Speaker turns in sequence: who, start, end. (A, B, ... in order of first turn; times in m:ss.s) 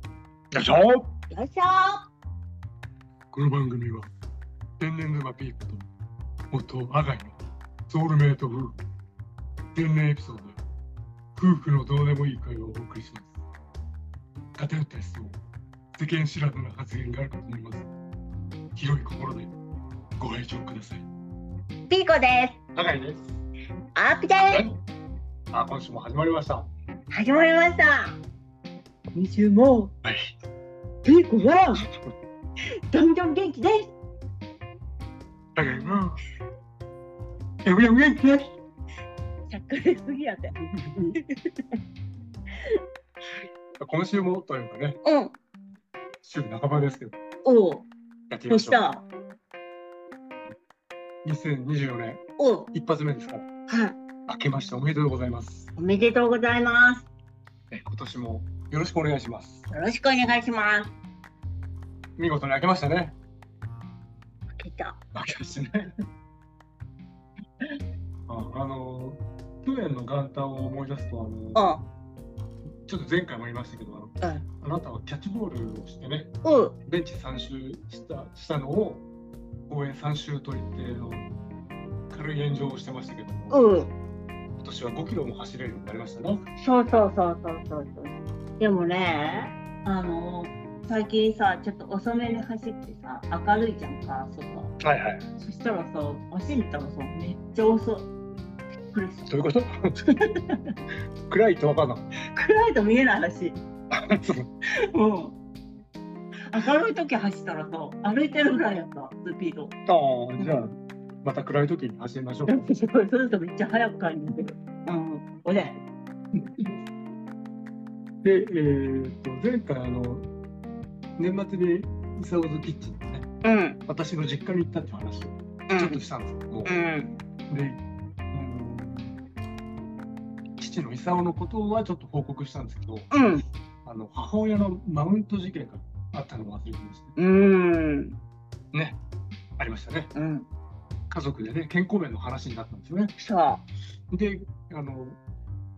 0:00.5-0:01.1 A
0:01.3-0:02.1 B
0:03.3-0:04.1 A
0:04.8-0:05.9 A
0:06.5-0:07.4 A
0:07.9-0:08.8 A
0:09.7-0:10.6 A
0:11.4-0:13.3 A
0:14.6-0:15.4 A
0:16.0-0:17.9 A
0:18.7-0:19.5 A
0:20.2-0:21.0 A
0:21.9-0:22.6 B
0:22.7-0:23.4 A
0:24.0-0:24.7 B
0:24.5-0:24.8 A
0:25.5-0:26.7 A
0:27.1-0:28.2 B
0:29.1-0:29.9 B
0:30.0-0:30.3 A
0:31.0-0:31.9 B
0:32.9-0:33.9 B
0:35.5-0:36.2 A
0:37.6-0:38.5 A
0:39.5-0:40.6 B
0:40.7-0:41.2 A
0:41.2-0:41.5 B
0:43.8-0:45.0 A
0:45.0-0:45.3 B
0:46.2-0:47.2 A
0:47.4-0:47.9 B
0:48.3-0:48.8 A
0:48.5-0:49.0 B
0:51.2-0:53.5 A
0:52.4-0:52.7 B
0:53.7-0:54.0 B
0:54.3-0:55.7 A
0:55.8-0:57.1 B
0:57.7-0:59.6 A
0:59.7-1:00.9 B
1:02.2-1:03.2 A
1:04.6-1:05.0 B
1:05.1-1:05.9 A
1:08.3-1:11.7 A
1:11.5-1:11.8 B
1:12.8-1:19.0 A
1:16.4-1:16.7 B
1:19.7-1:21.3 A
1:22.1-1:23.7 A
1:23.5-1:23.9 B
1:24.6-1:26.4 A
1:26.6-1:34.8 B
1:34.8-1:35.3 A
1:35.4-1:38.1 B
1:38.9-1:39.3 B
1:39.3-1:40.1 A
1:40.1-1:40.7 B
1:41.3-1:42.1 A
1:42.2-1:43.6 B
1:43.9-1:44.5 A
1:44.9-1:45.4 B
1:46.5-1:49.7 B
1:49.8-1:52.7 A
1:52.5-1:55.8 B
1:56.3-1:56.7 B
1:58.2-2:00.3 A
2:01.2-2:03.3 A
2:03.4-2:03.8 B
2:03.8-2:06.8 A
2:05.7-2:06.0 B
2:06.6-2:07.2 B
2:07.5-2:07.8 A
2:08.3-2:09.2 A
2:10.6-2:13.1 A
2:13.1-2:13.4 B
2:13.8-2:17.1 A
2:17.2-2:18.2 B
2:18.7-2:19.0 A
2:19.6-2:20.1 A
2:20.1-2:20.5 B
2:21.1-2:23.1 A
2:23.2-2:23.6 B
2:24.1-2:25.2 A